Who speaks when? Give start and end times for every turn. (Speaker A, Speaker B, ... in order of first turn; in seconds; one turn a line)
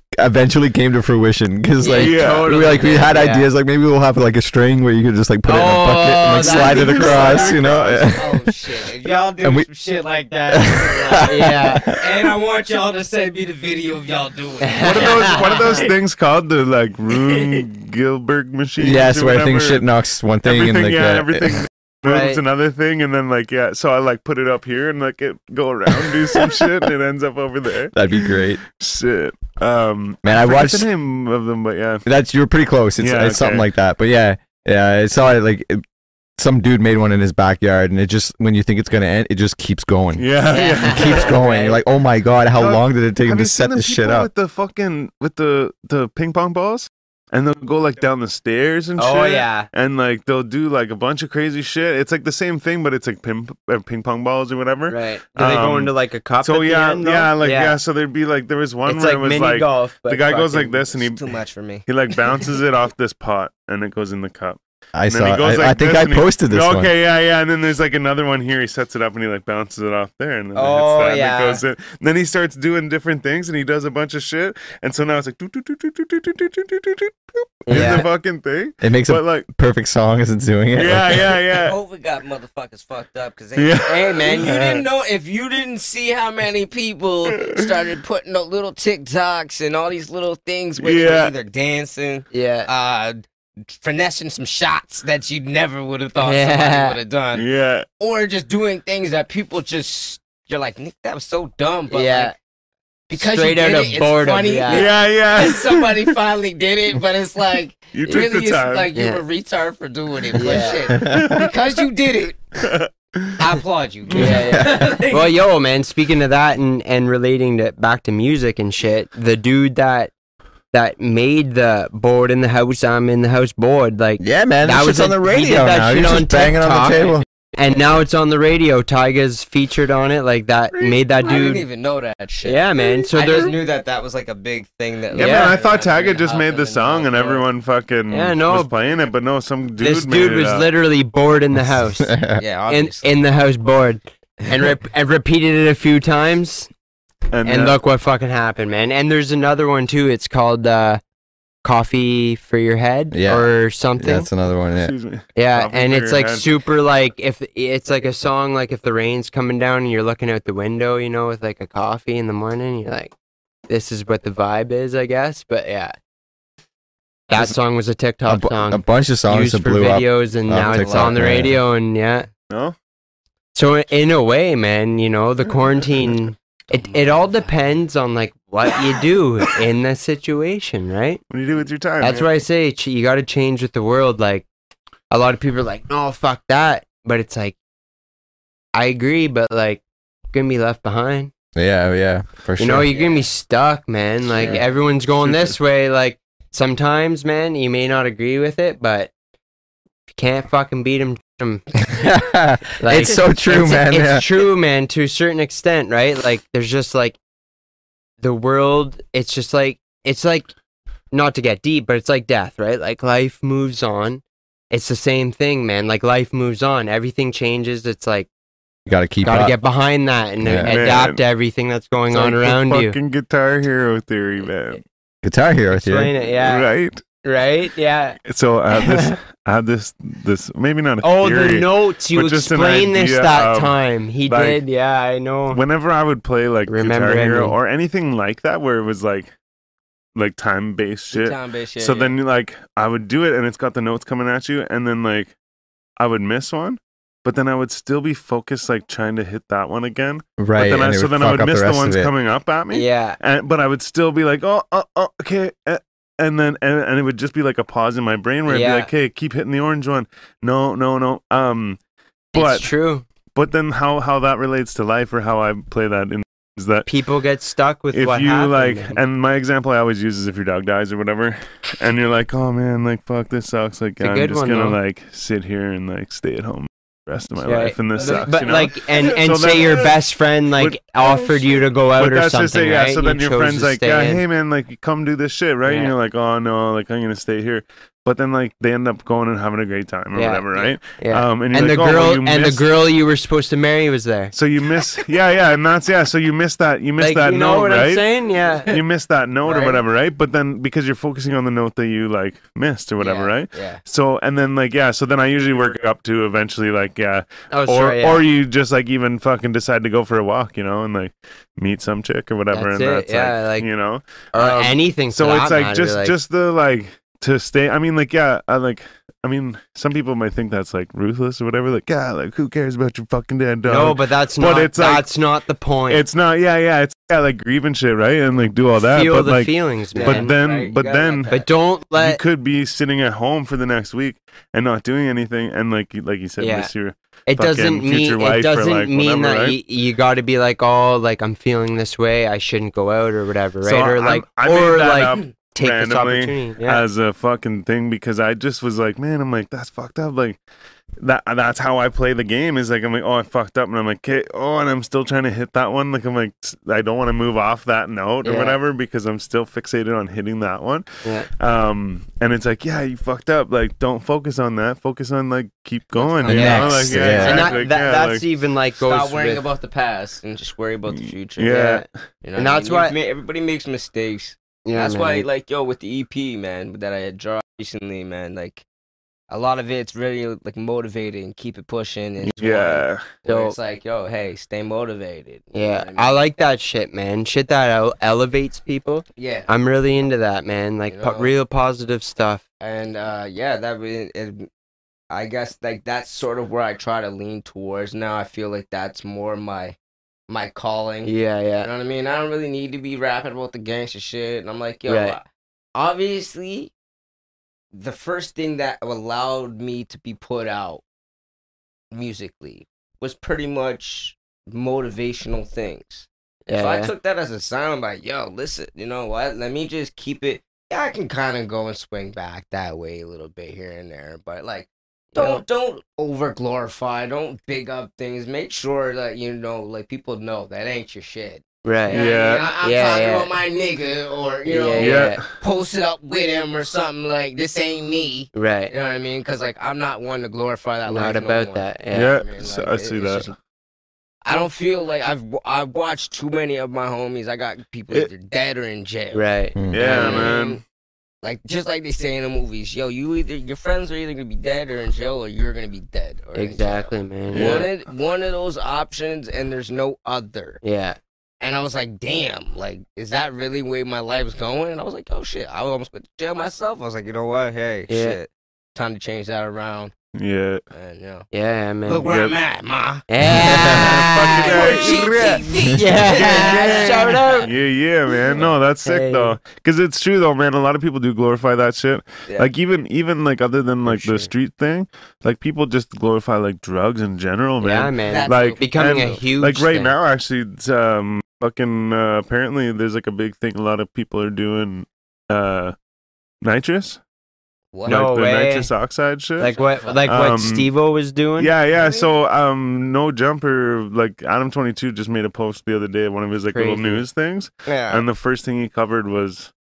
Speaker A: 0.2-8.5
Speaker B: 1.8-3.5
Speaker C: 1.9-2.5
Speaker B: 5.5-7.5
Speaker D: 6.4-15.9
Speaker C: 6.8-7.8
Speaker A: 9.4-9.7
Speaker A: 10.5-12.3
Speaker B: 11.2-11.8
Speaker B: 14.6-15.8
Speaker C: 14.8-19.8
Speaker D: 17.1-17.6
Speaker A: 18.8-21.6
Speaker C: 20.4-32.0
Speaker B: 22.0-22.4
Speaker A: 27.9-28.6
Speaker A: 30.2-30.9
Speaker A: 32.0-35.8
Speaker C: 33.0-33.7
Speaker A: 36.4-44.3
Speaker C: 40.2-41.4
Speaker B: 40.5-41.8
Speaker C: 42.5-61.2
Speaker B: 49.0-49.7
Speaker B: 54.9-57.8
Speaker B: 58.9-60.8
Speaker D: 60.9-61.9
Speaker C: 61.8-79.5
Speaker A: 64.9-66.9
Speaker B: 70.5-71.6
Speaker B: 77.7-78.1
Speaker A: 78.8-81.3
Speaker C: 80.7-81.8
Speaker D: 81.5-97.4
Speaker C: 83.5-84.8
Speaker B: 83.8-84.6
Speaker C: 90.8-91.3
Speaker B: 92.3-92.7
Speaker B: 96.2-97.0
Speaker C: 97.3-97.8
Speaker D: 98.0-102.3
Speaker B: 101.9-102.3
Speaker D: 103.1-112.4
Speaker B: 103.1-104.9
Speaker C: 104.7-106.1
Speaker C: 107.9-108.9
Speaker B: 108.9-109.2
Speaker B: 110.3-110.8
Speaker A: 110.9-111.4
Speaker C: 111.0-111.5
Speaker C: 112.6-113.4
Speaker D: 113.4-115.3
Speaker C: 114.1-114.4
Speaker B: 114.1-120.1
Speaker A: 114.2-114.8
Speaker B: 120.7-131.7
Speaker A: 124.2-127.2
Speaker D: 130.8-137.4
Speaker B: 132.4-133.5
Speaker C: 135.1-140.7
Speaker B: 135.2-135.6
Speaker B: 138.1-138.7
Speaker B: 139.8-142.2
Speaker A: 142.0-142.4
Speaker D: 142.3-143.2
Speaker B: 142.7-146.7
Speaker C: 147.3-147.8
Speaker B: 147.4-151.0
Speaker B: 151.6-154.3
Speaker A: 153.1-154.9
Speaker C: 154.7-156.4
Speaker B: 155.3-163.1
Speaker B: 163.7-165.9
Speaker B: 167.3-172.3
Speaker A: 168.3-171.6
Speaker D: 170.7-171.1
Speaker C: 172.5-172.7
Speaker B: 173.5-181.2
Speaker D: 176.8-177.4
Speaker C: 181.3-182.3
Speaker B: 182.0-184.4
Speaker B: 185.1-187.6
Speaker B: 188.7-191.3
Speaker A: 191.5-192.9
Speaker B: 192.6-199.1
Speaker D: 192.8-193.3
Speaker D: 194.4-194.6
Speaker C: 195.2-195.5
Speaker B: 200.1-201.7
Speaker A: 201.9-204.3
Speaker B: 202.8-207.2
Speaker B: 208.2-210.5
Speaker B: 211.1-218.3
Speaker A: 218.8-219.6
Speaker B: 219.2-222.9
Speaker A: 220.4-220.8
Speaker C: 220.6-221.2
Speaker C: 222.1-224.8
Speaker A: 225.2-226.1
Speaker B: 225.7-226.7
Speaker C: 226.3-227.0
Speaker B: 227.2-228.2
Speaker C: 228.2-233.7
Speaker B: 228.7-229.2
Speaker B: 231.0-235.6
Speaker C: 234.2-234.6
Speaker C: 235.5-239.3
Speaker B: 236.7-237.6
Speaker C: 240.1-245.3
Speaker D: 241.1-242.2
Speaker C: 246.0-261.8
Speaker A: 250.4-252.1
Speaker B: 252.7-253.2
Speaker B: 258.5-258.9
Speaker B: 262.3-263.0
Speaker C: 262.3-262.7
Speaker C: 263.3-266.9
Speaker B: 266.9-269.0
Speaker C: 267.9-279.9
Speaker B: 274.0-274.8
Speaker B: 277.4-284.2
Speaker D: 277.9-279.9
Speaker C: 280.6-292.6
Speaker B: 285.6-285.9
Speaker B: 290.1-294.3
Speaker C: 294.3-298.1
Speaker B: 297.0-298.7
Speaker D: 298.5-298.8
Speaker C: 298.7-325.1
Speaker D: 299.4-299.8
Speaker D: 303.0-303.8
Speaker B: 307.5-308.2
Speaker B: 312.5-313.7
Speaker B: 314.3-316.1
Speaker B: 323.6-326.0
Speaker C: 325.9-331.4
Speaker B: 328.8-330.3
Speaker D: 329.9-331.5
Speaker B: 331.3-332.2
Speaker C: 331.9-339.6
Speaker B: 336.4-336.7
Speaker B: 337.3-346.8
Speaker C: 343.6-350.4
Speaker C: 351.0-368.2
Speaker B: 358.2-358.6
Speaker D: 366.0-367.6
Speaker A: 366.2-367.5
Speaker B: 366.2-369.4
Speaker D: 368.8-371.6
Speaker C: 370.9-371.9
Speaker B: 371.5-371.8
Speaker D: 372.2-378.6
Speaker B: 372.4-372.9
Speaker B: 374.6-375.3
Speaker D: 379.3-386.1
Speaker C: 382.2-383.0
Speaker B: 383.2-383.6
Speaker B: 385.5-392.4
Speaker D: 389.2-389.5
Speaker D: 390.9-391.3
Speaker D: 392.6-394.5
Speaker D: 395.1-399.8
Speaker D: 400.3-405.2
Speaker B: 401.0-401.7
Speaker B: 404.9-405.2
Speaker D: 405.7-406.7
Speaker D: 407.7-410.8
Speaker D: 411.9-443.3
Speaker B: 416.5-416.9
Speaker B: 425.1-425.4
Speaker B: 431.6-432.0
Speaker C: 431.9-432.5
Speaker B: 432.6-433.3
Speaker B: 434.4-435.2
Speaker C: 434.8-435.2
Speaker B: 438.3-438.7
Speaker B: 440.9-442.1
Speaker C: 441.9-443.3
Speaker D: 444.2-450.6
Speaker B: 449.1-450.3
Speaker C: 449.7-450.6
Speaker D: 451.2-460.6
Speaker B: 456.3-457.7
Speaker C: 457.3-457.7
Speaker B: 460.6-461.0
Speaker D: 461.4-469.9
Speaker B: 467.9-468.2
Speaker C: 470.1-470.6
Speaker D: 470.7-471.3
Speaker B: 471.3-472.1
Speaker D: 471.9-473.0
Speaker C: 472.0-472.4
Speaker B: 473.1-477.5
Speaker A: 473.3-473.8
Speaker C: 473.5-495.7
Speaker D: 474.4-477.5
Speaker D: 478.2-478.5
Speaker B: 478.8-479.4
Speaker B: 483.9-484.3
Speaker B: 487.6-489.9
Speaker D: 488.1-489.2
Speaker C: 496.4-497.0
Speaker D: 497.7-498.1
Speaker C: 497.8-500.7
Speaker B: 497.9-498.7
Speaker B: 499.4-501.5
Speaker D: 499.4-500.2
Speaker C: 501.4-509.5
Speaker D: 501.7-502.1
Speaker B: 506.5-507.0
Speaker D: 507.7-508.0